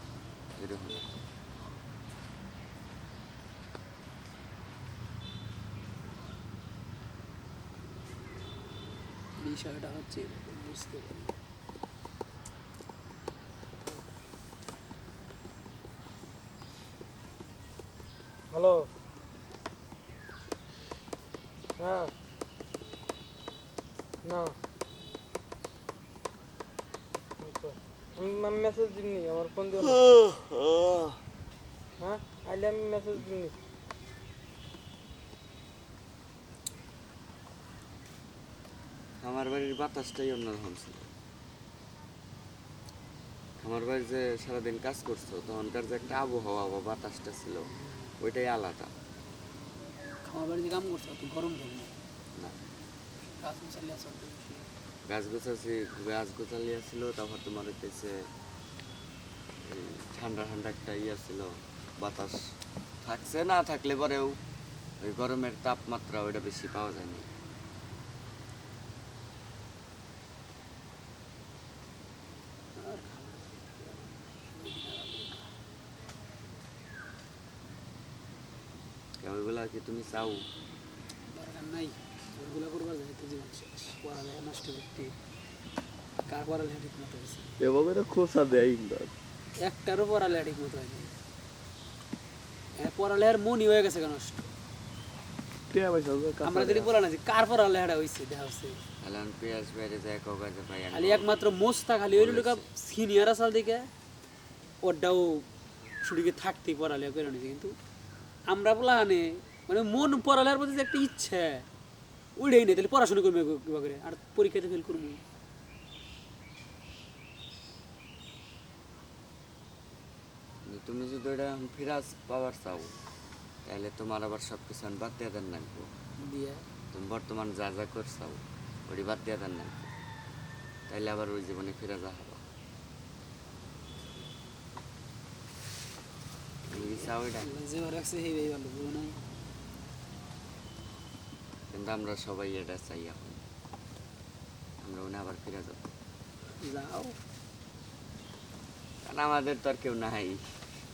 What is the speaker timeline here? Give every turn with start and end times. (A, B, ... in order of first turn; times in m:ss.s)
0:00.6-0:01.1 A
0:09.4-0:11.4 B
0:18.5-0:18.9 C
0:21.8-0:22.1 C
0:24.2-0:24.6 C
0:27.4-0:30.0 C
0:29.8-0:31.2 A
0:32.0-0:33.5 C
0:39.2-0:41.1 A
0:43.6-0:48.9 A
0:50.2-0:52.0 B
0:53.4-0:54.7 B
0:55.0-0:58.3 A
0:59.6-1:04.4 A
1:05.0-1:07.3 A
1:12.8-1:15.5 B
1:19.2-1:20.4 A
1:21.3-1:25.2 B
1:26.3-1:27.5 B
1:27.6-1:29.1 D
1:29.6-1:31.1 B
1:32.8-1:34.5 B
1:35.7-1:36.9 D
1:36.4-1:38.8 B
1:39.0-1:41.3 A
1:40.9-1:43.9 B
1:42.1-1:42.7 A
1:44.8-1:45.5 B
1:46.0-1:47.8 B
1:48.5-1:51.7 B
1:52.4-1:55.2 B
2:00.6-2:03.0 A
2:03.6-2:05.9 A
2:06.2-2:06.6 B
2:06.9-2:09.9 A
2:10.9-2:12.4 A
2:16.7-2:17.5 A
2:16.7-2:19.2 B
2:21.7-2:23.4 A
2:24.8-2:25.9 A
2:26.6-2:27.2 B
2:29.0-2:30.4 A